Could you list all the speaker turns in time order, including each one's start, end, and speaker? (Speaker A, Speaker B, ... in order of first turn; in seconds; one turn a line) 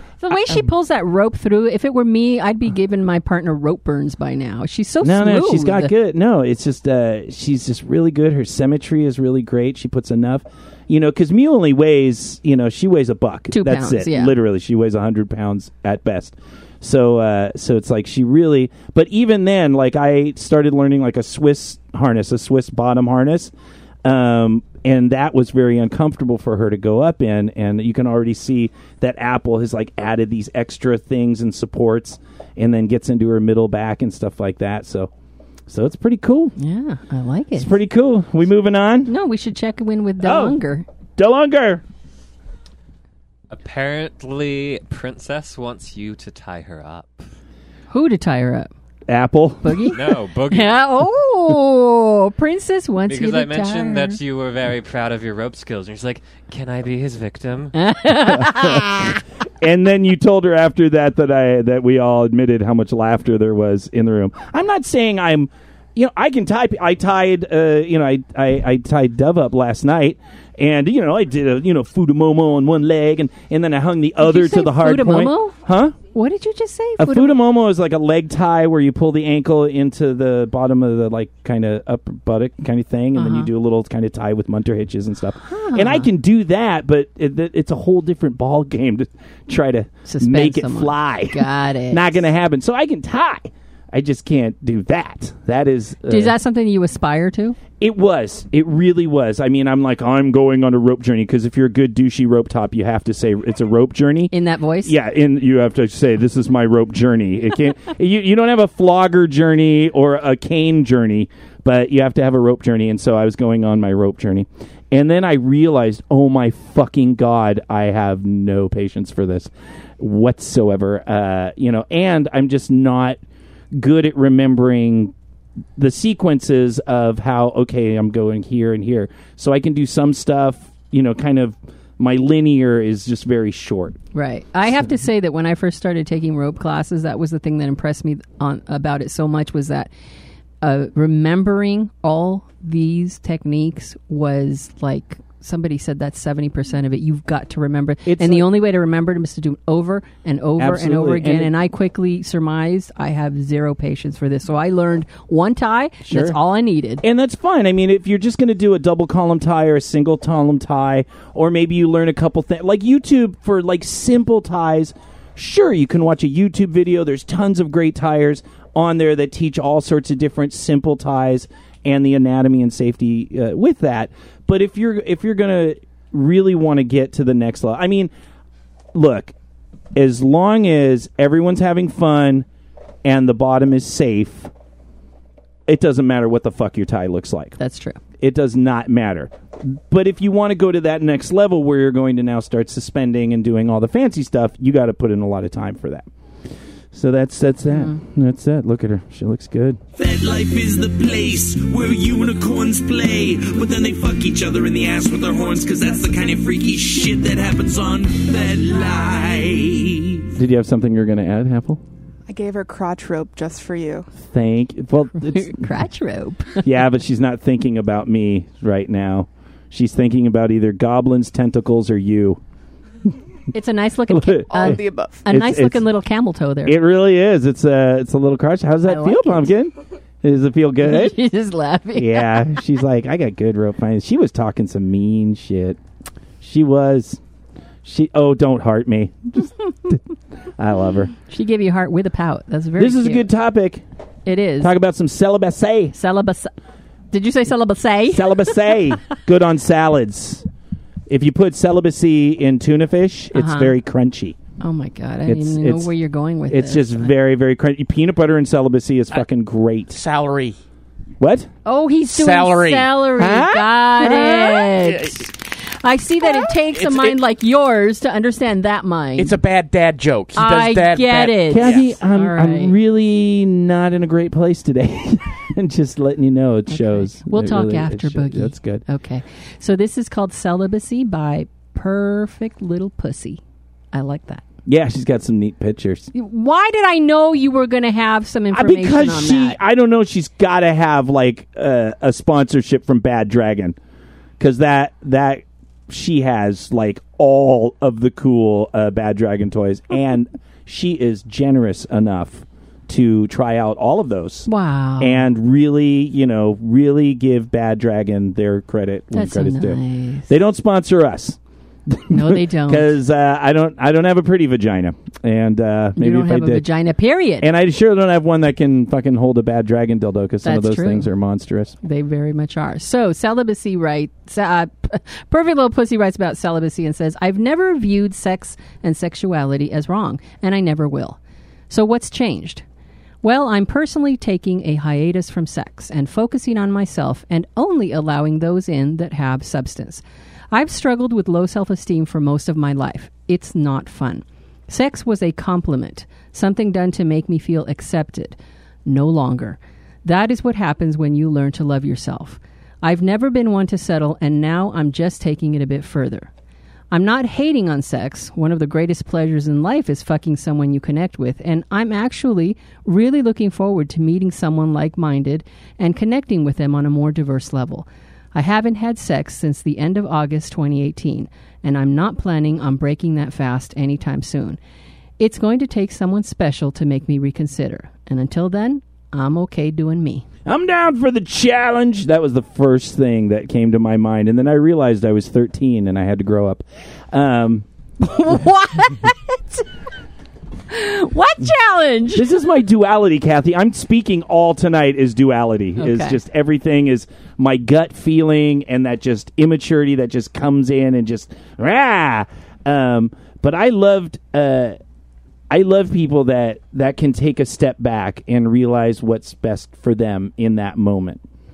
Speaker A: 0.2-5.9
Speaker B: 5.0-23.5
Speaker A: 13.5-14.3
Speaker B: 24.0-35.1
Speaker B: 35.7-36.5
Speaker A: 36.6-37.8
Speaker B: 37.6-39.1
Speaker A: 39.1-40.9
Speaker B: 40.2-40.6
Speaker B: 41.2-41.8
Speaker C: 43.5-47.3
Speaker A: 47.9-48.7
Speaker B: 49.1-49.9
Speaker A: 49.6-54.2
Speaker C: 49.9-50.8
Speaker C: 53.1-57.8
Speaker A: 57.8-59.2
Speaker B: 58.4-58.8
Speaker B: 59.6-76.0
Speaker A: 74.2-75.5
Speaker A: 76.1-77.4
Speaker B: 77.0-96.3
Speaker A: 83.2-83.5
Speaker A: 85.5-86.1
Speaker A: 90.1-92.2
Speaker A: 96.1-97.6
Speaker B: 97.8-104.3
Speaker A: 104.3-104.9
Speaker B: 104.8-123.2
Speaker B: 123.8-125.1
Speaker B: 125.8-134.0
Speaker A: 134.1-139.9
Speaker A: 140.6-157.0
Speaker B: 148.1-148.5
Speaker B: 150.6-151.5
Speaker B: 156.1-156.4
Speaker B: 157.0-178.1
Speaker B: 178.9-179.3
Speaker B: 179.9-182.5
Speaker B: 183.1-184.5
Speaker B: 185.7-187.6
Speaker A: 187.6-188.0
Speaker B: 188.2-196.1
Speaker B: 196.9-199.8
Speaker A: 197.7-198.0
Speaker D: 200.0-210.2
Speaker B: 210.3-211.8
Speaker E: 212.3-214.1
Speaker B: 214.2-215.7
Speaker A: 215.2-216.6
Speaker B: 216.6-222.4
Speaker A: 223.5-226.8
Speaker B: 224.1-225.8
Speaker E: 224.5-225.2
Speaker B: 226.7-231.2
Speaker A: 228.8-229.5
Speaker A: 230.8-232.5
Speaker B: 231.9-235.8
Speaker B: 236.4-237.2
Speaker B: 237.8-240.0
Speaker B: 240.6-241.1
Speaker A: 241.3-243.3
Speaker B: 242.8-243.8
Speaker A: 244.3-244.7
Speaker B: 244.6-245.9
Speaker A: 245.9-246.5
Speaker A: 247.1-248.9
Speaker B: 248.1-250.4
Speaker B: 251.1-254.4
Speaker A: 253.3-253.8
Speaker A: 254.6-257.1
Speaker B: 255.3-255.9
Speaker B: 256.5-260.0
Speaker F: 259.9-260.6
Speaker B: 261.2-261.5
Speaker A: 261.6-269.4
Speaker F: 262.1-262.9
Speaker B: 263.2-264.6
Speaker F: 264.8-265.2
Speaker F: 266.7-267.2
Speaker F: 269.2-271.9
Speaker A: 270.4-272.8
Speaker B: 271.5-278.8
Speaker A: 276.7-283.4
Speaker A: 283.9-284.4
Speaker B: 284.7-286.1
Speaker A: 286.1-289.6
Speaker B: 288.5-293.8
Speaker B: 294.4-304.5
Speaker A: 304.5-305.3
Speaker B: 305.0-316.7
Speaker A: 309.1-310.3
Speaker A: 312.1-312.9
Speaker A: 316.0-317.5
Speaker B: 317.4-321.8
Speaker A: 320.4-321.1
Speaker A: 321.8-331.2
Speaker A: 331.7-332.6
Speaker A: 333.2-356.3
Speaker A: 356.9-374.6
Speaker A: 375.2-380.2
Speaker B: 380.5-387.7
Speaker A: 388.0-389.6
Speaker A: 390.7-392.3
Speaker B: 392.1-404.8
Speaker A: 395.8-396.2
Speaker B: 405.5-411.2